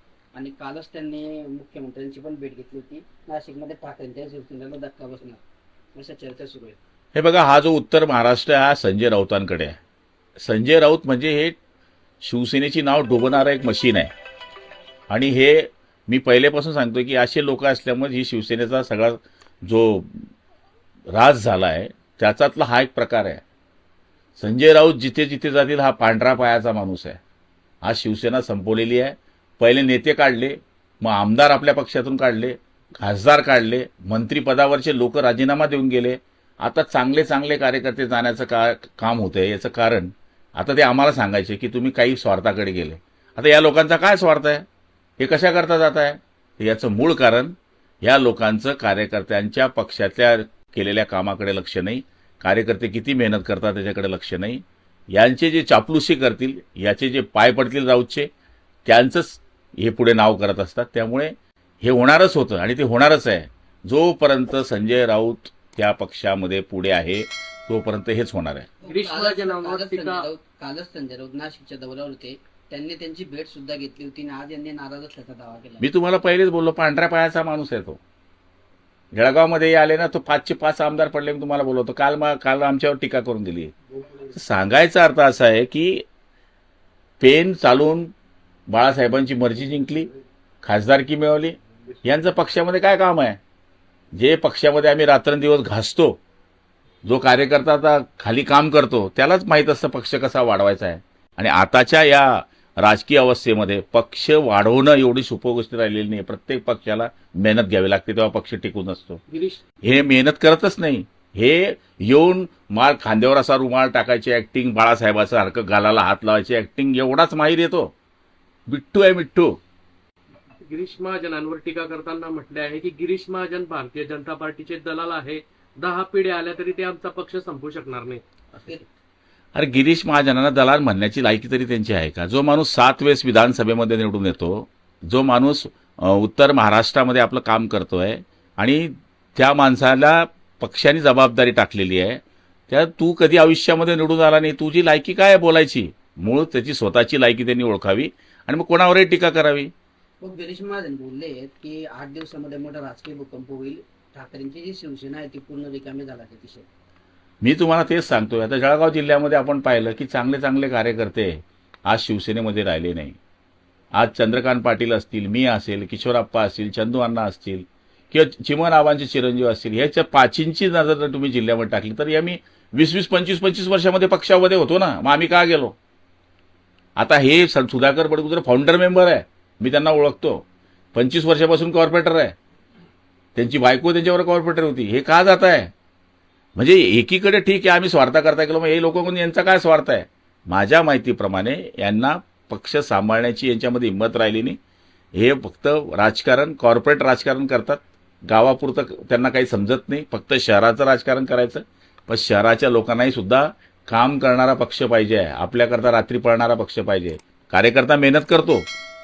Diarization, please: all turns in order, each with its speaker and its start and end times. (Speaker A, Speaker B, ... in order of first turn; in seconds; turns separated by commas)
Speaker A: 0.3-5.4, Speaker A: 5.9-6.8, Speaker B: 7.1-9.8, Speaker B: 10.4-11.6, Speaker B: 12.2-14.1, Speaker B: 15.1-20.3, Speaker B: 21.1-23.4, Speaker B: 24.4-27.2, Speaker B: 27.8-44.6, Speaker B: 45.2-58.3, Speaker B: 58.8-68.7, Speaker A: 68.8-75.9, Speaker C: 68.8-70.2, Speaker B: 75.8-78.0, Speaker B: 79.1-83.7, Speaker B: 84.3-86.0, Speaker B: 87.2-88.1, Speaker B: 88.7-90.1, Speaker B: 90.6-93.4, Speaker B: 94.1-96.2, Speaker B: 97.0-109.2, Speaker C: 109.3-109.6, Speaker B: 109.8-117.9, Speaker B: 118.7-119.6, Speaker C: 120.7-128.2, Speaker A: 128.5-128.8, Speaker B: 129.5-149.7, Speaker A: 150.2-156.7, Speaker B: 157.4-163.2, Speaker B: 163.9-175.8, Speaker B: 176.9-182.3, Speaker B: 183.3-185.7, Speaker B: 186.6-194.6, Speaker B: 195.1-208.7